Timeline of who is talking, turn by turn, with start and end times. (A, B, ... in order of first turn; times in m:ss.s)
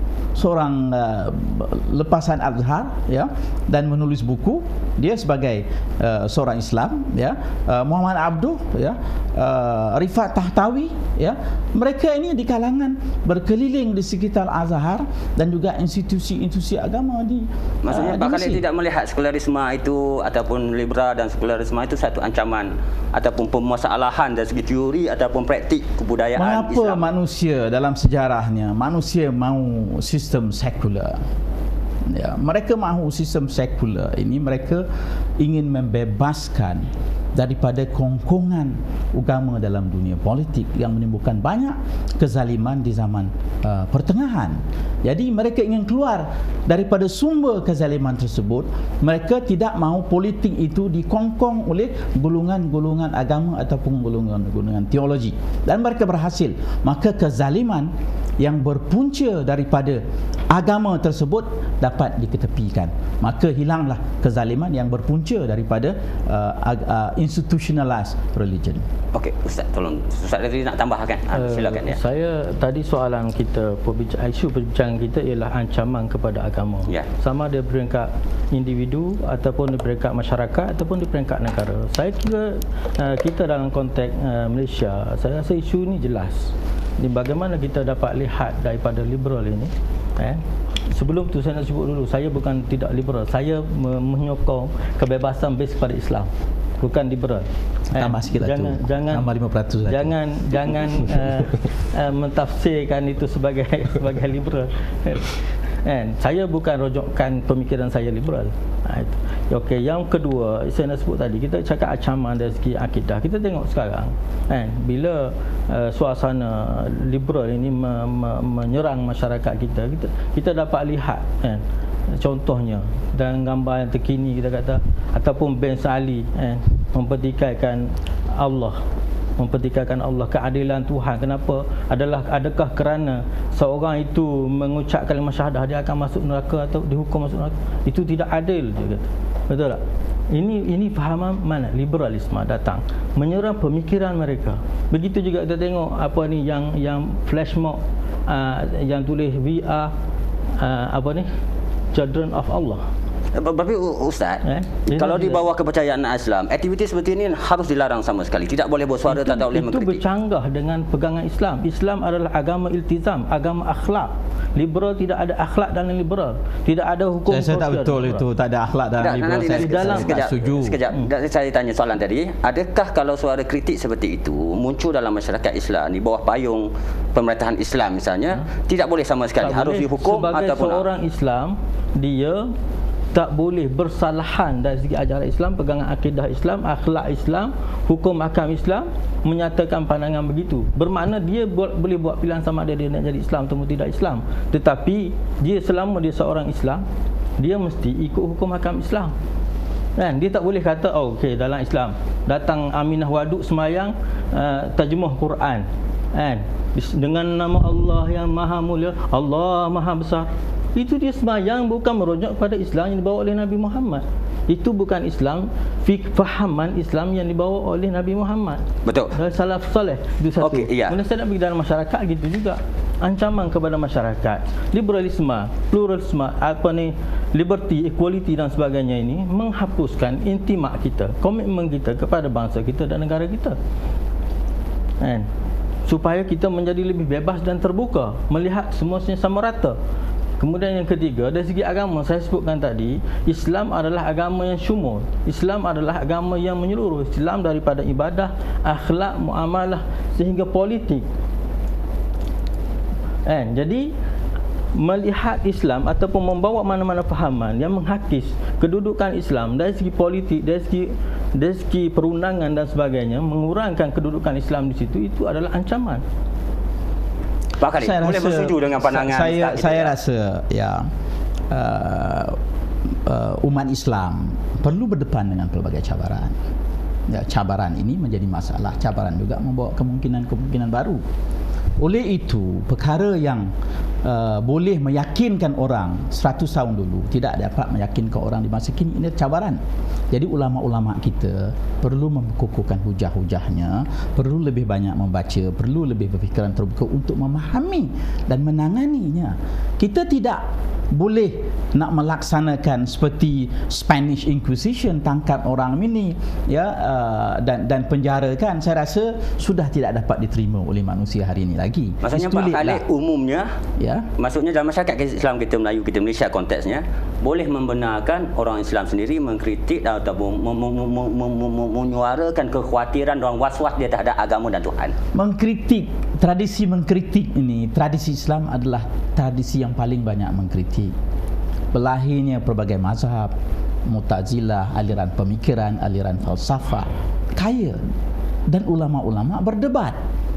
0:00.4-0:18.6 A
0:17.8-0:27.0 B
0:26.4-0:31.2 A
0:32.1-0:34.9 A
0:35.4-1:08.8 A
1:09.1-1:12.0 B
1:11.3-1:39.3 C
1:37.9-1:40.2 A
1:39.9-2:08.8 C
2:09.4-2:29.9 C
2:30.6-2:31.3 C
2:31.9-2:32.9 C
2:33.3-2:40.0 B
2:34.4-2:35.4 C
2:39.1-2:48.2 C
2:47.3-2:50.8 A
2:49.0-3:00.9 B
2:49.4-2:50.2 C
2:59.4-3:02.5 C
3:03.1-3:16.8 C
3:17.4-3:19.1 C
3:20.0-3:53.6 C
3:38.8-3:39.2 B
3:40.4-3:41.0 B
3:55.0-3:55.3 C
3:55.9-3:59.8 C
4:00.4-4:11.1 C
4:13.3-4:13.9 C
4:14.7-4:26.0 C
4:27.6-4:29.9 B
4:27.8-4:30.9 A
4:31.5-4:32.4 A
4:33.0-4:36.4 A
4:37.1-4:41.0 A
4:41.8-4:43.5 A
4:44.0-4:49.6 A
4:50.1-5:12.8 A
5:12.0-5:13.5 B
5:13.8-5:14.1 A
5:14.2-5:25.0 B
5:25.1-5:31.0 A
5:31.7-5:33.3 A
5:33.8-5:37.8 A
5:38.5-5:40.0 A